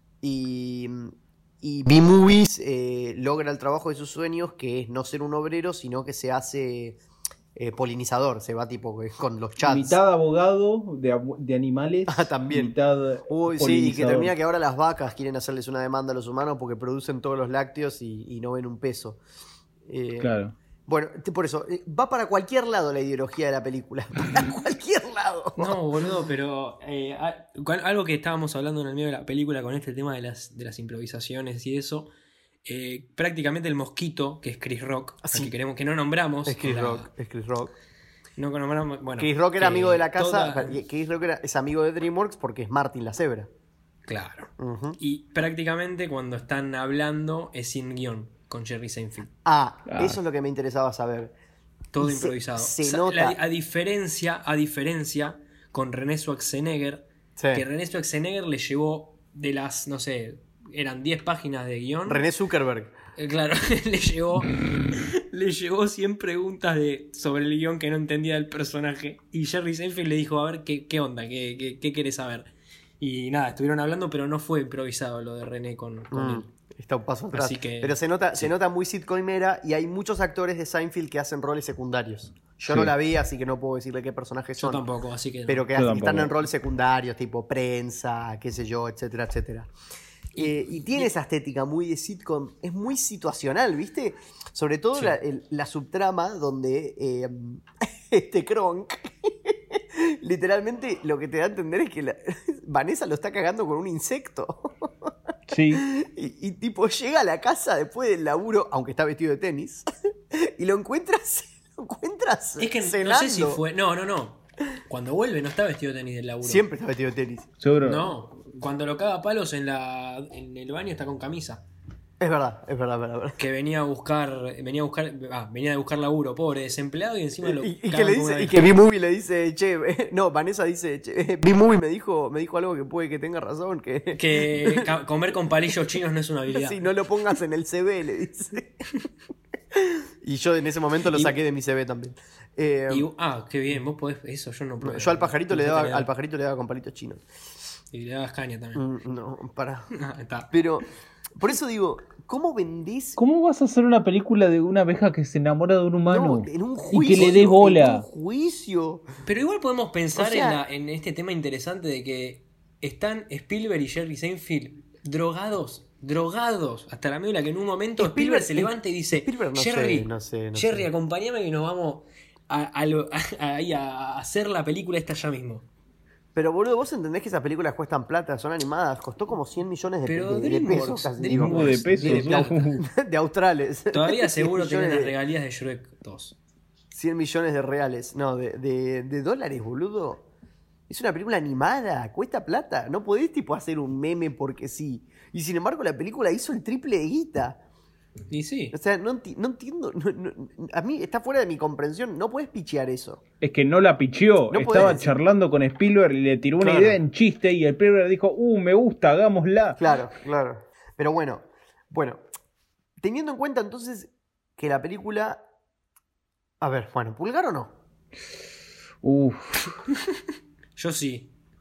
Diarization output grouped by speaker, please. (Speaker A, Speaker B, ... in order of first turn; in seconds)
Speaker A: 0.2-7.0, 7.5-10.0, 12.1-12.7, 13.3-19.2, 19.9-20.4, 20.9-25.8, 35.2-35.5, 36.5-37.7, 39.2-43.5, 44.6-45.0, 49.5-51.3, 52.0-53.4, 57.4-57.6, 62.1-62.9, 76.1-84.8, 85.5-89.7, 90.4-105.1, 105.7-113.6, 116.4-117.5, 122.2-123.4, 127.4-134.9, 136.5-138.8, 139.8-143.1, 144.8-147.2, 148.8-149.9, 150.5-153.2, 156.1-159.1, 160.2-160.6, 168.0-170.9, 176.3-185.1, 186.9-190.2, 190.9-197.6, 198.7-203.2, 204.5-205.1, 206.6-207.0, 209.8-212.2, 213.0-215.4, 216.6-217.7
Speaker B: 9.6-14.3, 20.2-20.6, 49.9-50.2, 82.7-82.9, 85.8-86.3, 105.5-105.8, 117.6-118.1, 153.2-158.1, 181.3-182.8, 203.4-209.8, 219.0-219.7
Speaker C: 25.6-32.1, 32.6-37.1, 38.4-40.8, 44.1-49.3, 51.9-62.2, 63.2-76.5, 77.3-78.5, 84.6-85.7, 90.3-91.1, 112.6-116.7, 117.8-121.6, 123.4-128.6, 134.2-136.8, 142.9-146.1, 147.9-148.8, 149.9-150.5, 159.2-175.7, 180.1-182.8, 183.9-186.4, 198.3-198.7, 220.8-221.3